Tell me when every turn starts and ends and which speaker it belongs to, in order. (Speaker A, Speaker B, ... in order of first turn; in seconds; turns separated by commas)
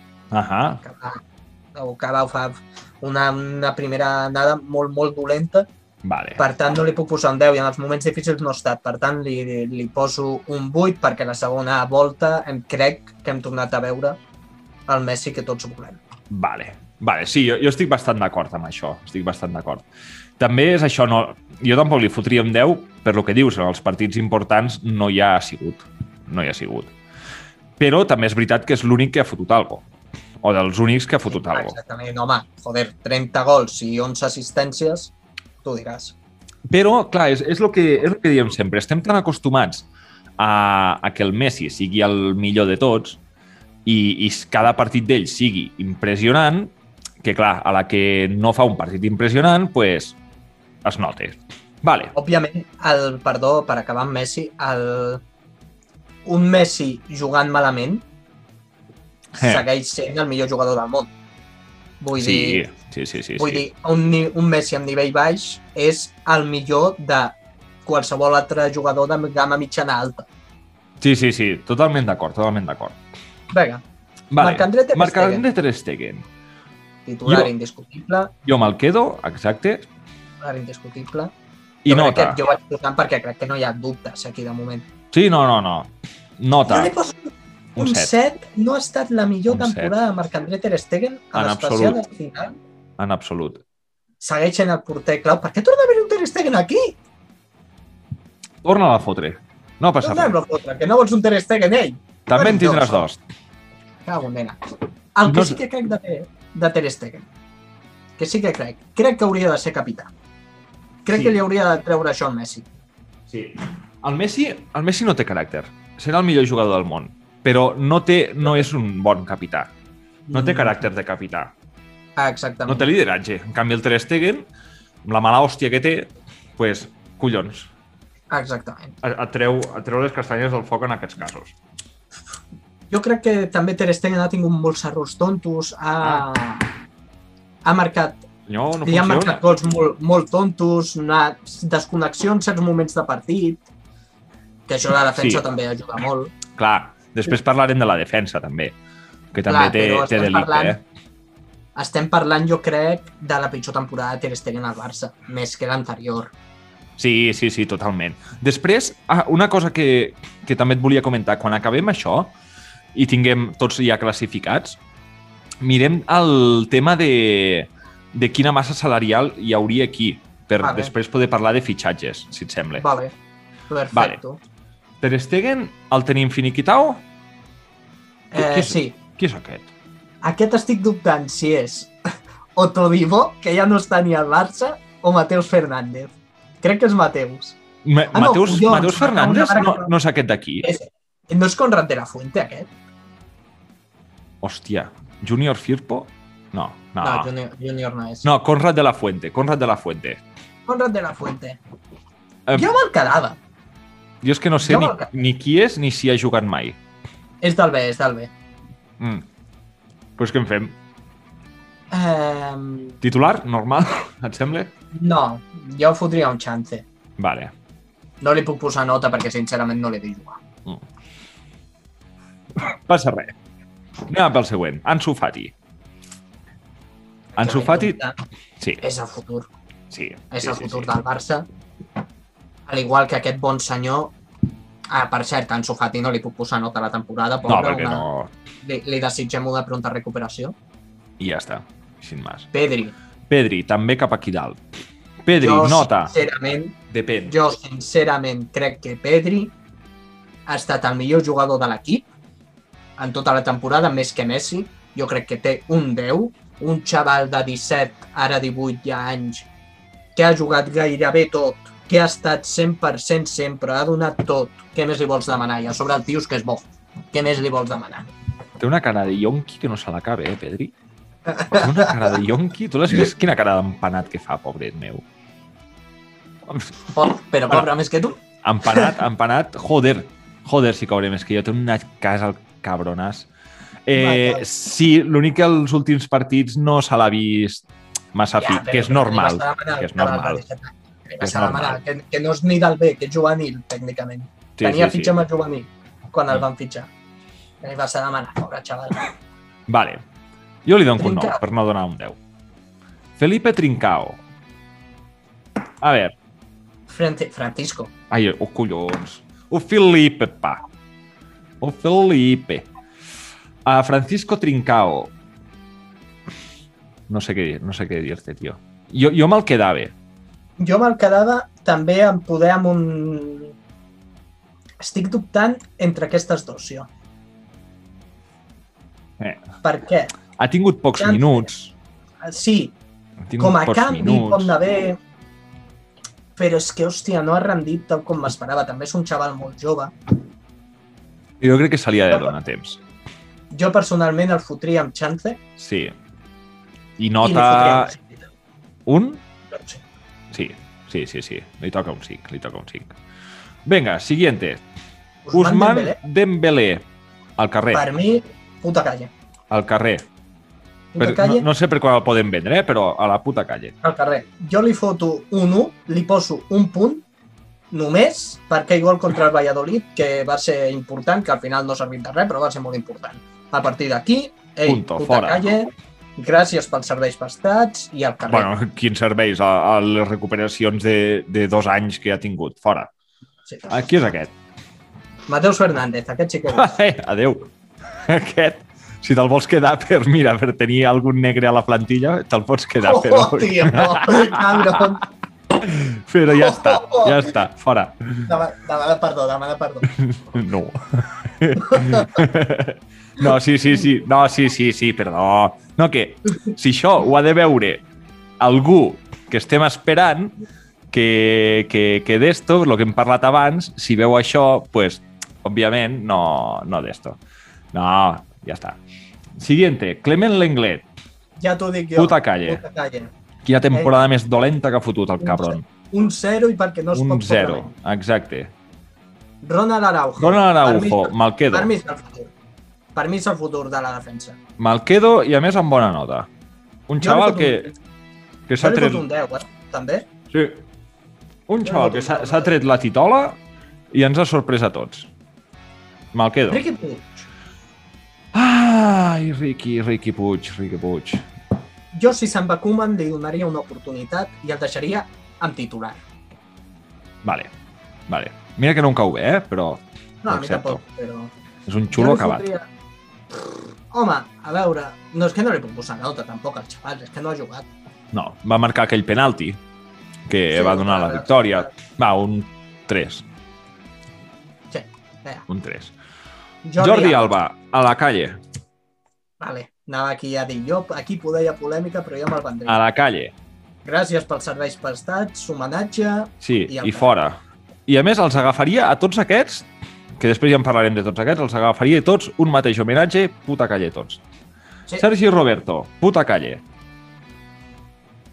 Speaker A: 0.3-0.8, Speaker B: 0.8-1.2, Speaker B: 1.7-5.7, Speaker A: 6.0-6.4, Speaker B: 6.4-14.2, Speaker B: 14.9-16.0, Speaker A: 16.3-19.9, Speaker A: 20.4-26.9, Speaker A: 27.8-29.9, Speaker A: 30.4-31.8, Speaker B: 31.3-36.1, Speaker A: 36.7-39.9, Speaker A: 40.4-43.2, Speaker A: 43.8-50.2, Speaker A: 50.8-52.1, Speaker B: 52.1-55.2, Speaker B: 56.2-58.0, Speaker A: 59.3-59.6, Speaker B: 59.4-61.1, Speaker B: 62.0-62.6, Speaker A: 62.1-63.6, Speaker B: 63.4-70.3, Speaker A: 71.0-73.0, Speaker B: 73.5-73.8, Speaker A: 74.3-76.2, Speaker B: 74.4-75.4, Speaker B: 77.0-78.3, Speaker A: 78.4-79.9, Speaker B: 80.4-81.3, Speaker A: 81.8-82.4, Speaker B: 81.9-84.9, Speaker A: 85.1-86.9, Speaker B: 86.7-92.5, Speaker A: 87.8-88.1, Speaker A: 89.5-89.9, Speaker A: 91.3-92.0, Speaker A: 93.0-93.6, Speaker B: 94.2-97.0, Speaker A: 98.6-100.3, Speaker B: 100.0-103.0, Speaker A: 102.3-103.2, Speaker B: 104.0-107.3, Speaker A: 105.2-105.6, Speaker B: 108.2-110.1, Speaker B: 111.0-112.7, Speaker A: 111.1-111.4, Speaker A: 113.3-119.7, Speaker B: 120.3-120.8, Speaker A: 120.3-121.5, Speaker B: 122.2-122.9, Speaker A: 122.7-124.5, Speaker A: 125.0-127.7, Speaker B: 128.3-128.9, Speaker A: 129.0-131.5, Speaker B: 132.9-136.7, Speaker B: 137.6-138.2, Speaker A: 138.5-139.4, Speaker B: 138.8-143.7, Speaker B: 144.7-146.3, Speaker A: 145.1-145.4, Speaker A: 146.6-148.7, Speaker A: 149.3-150.8, Speaker B: 149.5-150.8, Speaker B: 151.8-156.3, Speaker A: 157.0-162.3, Speaker A: 162.9-164.8, Speaker A: 165.6-172.8, Speaker B: 170.6-170.9, Speaker B: 172.8-173.1, Speaker B: 173.7-174.4, Speaker A: 173.9-174.2, Speaker A: 175.0-177.0, Speaker B: 178.3-178.9, Speaker A: 178.3-179.7, Speaker B: 180.2-181.9, Speaker B: 182.6-187.6, Speaker A: 187.8-190.7, Speaker B: 188.1-189.9, Speaker B: 190.6-192.7, Speaker A: 194.4-197.3, Speaker B: 197.0-198.3, Speaker A: 198.2-200.2, Speaker B: 200.7-201.6, Speaker B: 202.5-203.4, Speaker A: 204.2-206.8, Speaker B: 204.6-205.1, Speaker B: 207.4-208.3, Speaker A: 209.0-209.3, Speaker A: 210.2-210.8, Speaker B: 211.9-213.0, Speaker A: 213.0-214.7, Speaker B: 214.9-216.8, Speaker A: 217.2-217.5, Speaker B: 218.2-220.4, Speaker A: 222.6-223.3, Speaker A: 224.1-225.5, Speaker B: 227.3-228.2, Speaker A: 227.3-227.9, Speaker B: 228.8-229.5, Speaker A: 229.9-230.9, Speaker B: 230.3-231.4, Speaker B: 232.7-234.1, Speaker B: 234.9-238.1, Speaker A: 237.4-238.3, Speaker B: 238.6-240.6, Speaker A: 241.2-242.5, Speaker B: 242.5-242.9, Speaker A: 243.3-244.6, Speaker A: 245.2-246.1, Speaker B: 245.3-246.7, Speaker A: 246.9-247.4, Speaker B: 247.2-249.5, Speaker B: 250.5-252.1, Speaker B: 253.0-259.5, Speaker B: 260.1-268.1, Speaker A: 268.6-270.7, Speaker B: 271.3-272.1, Speaker A: 271.5-275.0, Speaker B: 276.9-278.9, Speaker A: 278.4-283.3, Speaker A: 283.9-290.4, Speaker B: 283.9-284.5, Speaker B: 288.4-296.9, Speaker A: 291.2-291.8, Speaker A: 294.6-295.2, Speaker B: 297.6-299.1, Speaker A: 299.7-300.0, Speaker A: 300.6-302.2, Speaker B: 301.0-301.4, Speaker A: 303.2-304.2, Speaker A: 305.8-306.1, Speaker B: 306.9-307.9, Speaker A: 308.1-310.6, Speaker A: 311.6-312.7, Speaker A: 313.6-315.1, Speaker A: 317.1-319.9, Speaker B: 320.6-323.5, Speaker B: 324.8-326.9, Speaker B: 329.6-330.1, Speaker A: 330.4-331.7, Speaker B: 331.0-331.5, Speaker B: 332.2-332.7, Speaker A: 333.2-334.5, Speaker B: 333.4-335.0, Speaker B: 336.4-339.9, Speaker A: 341.4-342.8, Speaker B: 343.5-345.4, Speaker A: 345.6-345.9, Speaker A: 347.0-347.9, Speaker B: 347.2-348.2, Speaker A: 348.9-349.2, Speaker B: 349.5-349.8, Speaker A: 350.3-352.9, Speaker A: 353.6-354.6, Speaker B: 355.2-356.0, Speaker A: 355.3-356.9, Speaker A: 357.4-357.8, Speaker B: 357.7-359.1, Speaker A: 359.5-360.1, Speaker B: 360.9-361.5, Speaker A: 361.0-363.7, Speaker B: 363.8-367.0, Speaker B: 367.7-378.5, Speaker A: 374.6-375.4, Speaker A: 378.3-382.9, Speaker B: 383.5-383.9, Speaker A: 383.7-384.3, Speaker B: 385.3-386.7, Speaker A: 386.5-394.9, Speaker B: 392.8-395.1, Speaker A: 395.5-398.3, Speaker B: 396.3-397.4, Speaker B: 398.2-399.9, Speaker A: 399.9-407.8, Speaker B: 401.6-402.1, Speaker A: 408.4-410.4, Speaker A: 410.9-417.2, Speaker A: 417.7-418.8, Speaker A: 419.4-420.9, Speaker B: 421.4-423.1, Speaker A: 421.9-422.6, Speaker A: 423.4-425.7, Speaker B: 423.7-424.0, Speaker B: 425.2-427.7, Speaker A: 426.9-428.5, Speaker B: 429.4-432.3, Speaker A: 430.2-431.7, Speaker B: 432.9-434.4, Speaker A: 434.6-436.3, Speaker A: 436.9-437.7, Speaker B: 437.0-437.7, Speaker A: 438.5-439.0, Speaker B: 438.6-440.1, Speaker A: 440.3-440.6, Speaker A: 441.5-443.4, Speaker B: 441.6-442.5, Speaker A: 443.9-445.1, Speaker A: 446.1-446.6, Speaker B: 446.5-447.3, Speaker A: 448.3-451.3, Speaker B: 451.9-456.0, Speaker A: 457.2-457.5, Speaker A: 458.1-460.8, Speaker B: 460.2-461.3, Speaker A: 461.7-462.4, Speaker B: 461.9-462.6, Speaker B: 463.3-467.7, Speaker A: 468.1-469.6, Speaker A: 470.3-473.2, Speaker B: 470.5-471.7, Speaker B: 474.7-475.4, Speaker A: 475.5-475.9, Speaker B: 476.6-477.3, Speaker A: 476.8-478.4, Speaker B: 479.4-482.8, Speaker A: 482.7-483.3, Speaker B: 483.8-487.1, Speaker A: 486.4-494.2, Speaker A: 495.0-496.6